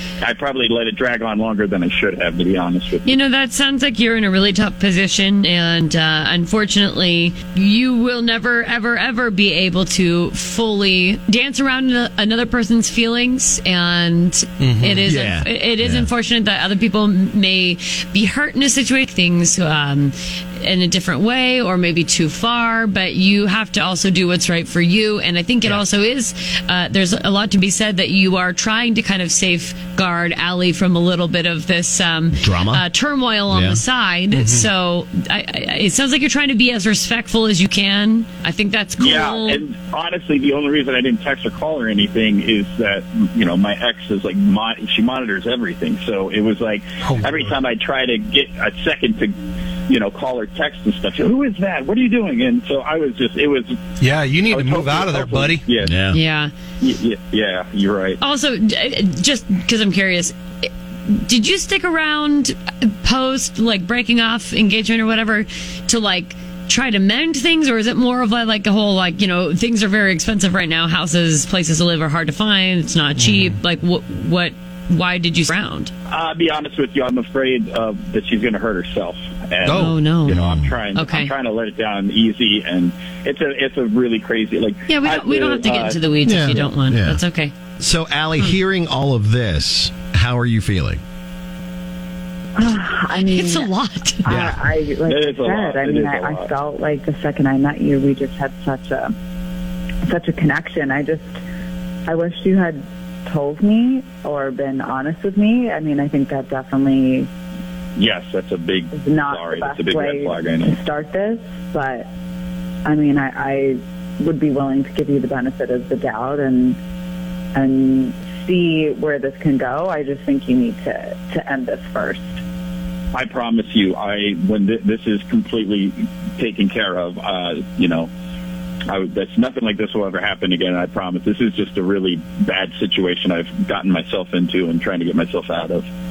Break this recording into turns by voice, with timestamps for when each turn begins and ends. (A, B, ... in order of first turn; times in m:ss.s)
0:00.2-0:03.2 A
0:03.0-0:39.6 B
0:14.6-0:15.0 C
0:15.0-0:16.1 D
0:32.3-0:32.8 D
0:33.5-0:33.8 D
0:34.3-0:34.7 C
0:39.0-0:53.8 A
0:47.0-0:47.6 C
0:54.0-0:55.7 C
0:54.5-0:55.9 A
0:55.8-0:56.2 D
0:56.1-0:56.5 B
0:56.8-0:58.2 A
0:58.2-1:15.9 B
1:13.2-1:13.6 C
1:16.1-1:26.0 A
1:19.6-1:20.0 C
1:19.7-1:20.4 B
1:20.2-1:20.7 D
1:20.9-1:21.3 B
1:24.9-1:27.5 B
1:26.2-1:27.2 D
1:27.8-1:31.0 D
1:32.6-1:33.7 E
1:33.2-1:34.3 B
1:34.2-1:39.1 E
1:34.2-1:34.6 D
1:35.0-1:36.5 A
1:40.0-1:41.4 E
1:42.1-1:47.3 E
1:48.0-1:50.8 A
1:48.9-1:52.1 E
1:52.8-1:56.8 E
1:57.5-2:02.4 E
2:03.1-2:08.1 A
2:08.9-2:15.8 A